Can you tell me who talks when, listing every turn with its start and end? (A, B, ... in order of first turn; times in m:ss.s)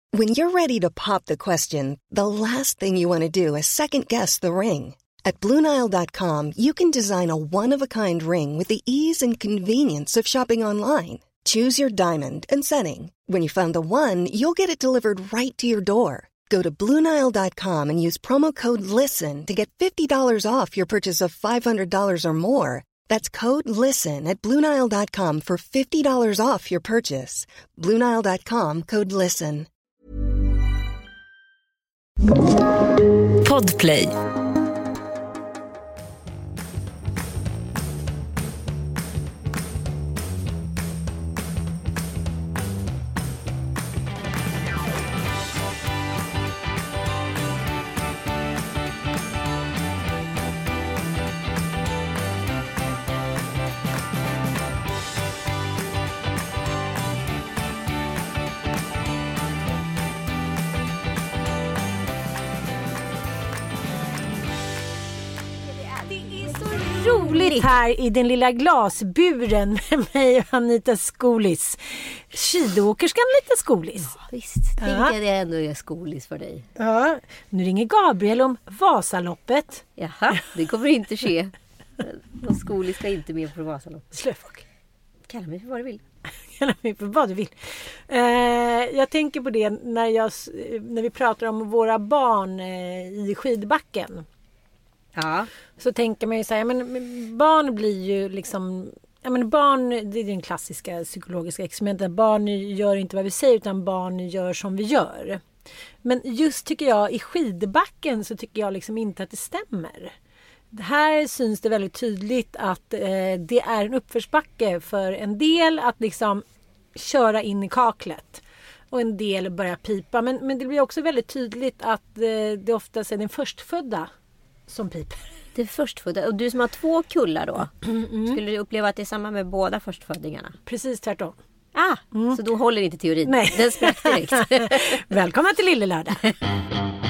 0:00.1-0:29.7 A
0:33.4-0:34.1 B
1:05.8-1:14.2 C
1:14.1-1:16.7 B
1:14.8-1:15.1 C
1:16.8-1:19.8 C
1:20.0-1:24.1 B
1:24.1-1:24.6 C
1:25.3-1:26.0 B
1:26.5-1:34.2 C
1:35.1-1:35.5 B
1:35.8-1:45.4 C
1:46.0-1:50.1 C
1:50.7-1:56.4 C
1:56.9-2:04.1 C
2:04.7-2:05.3 C
2:05.5-2:10.5 B
2:07.8-2:08.4 C
2:10.6-2:11.4 C
2:11.7-2:15.0 B
2:12.1-2:12.4 C
2:13.2-2:16.2 C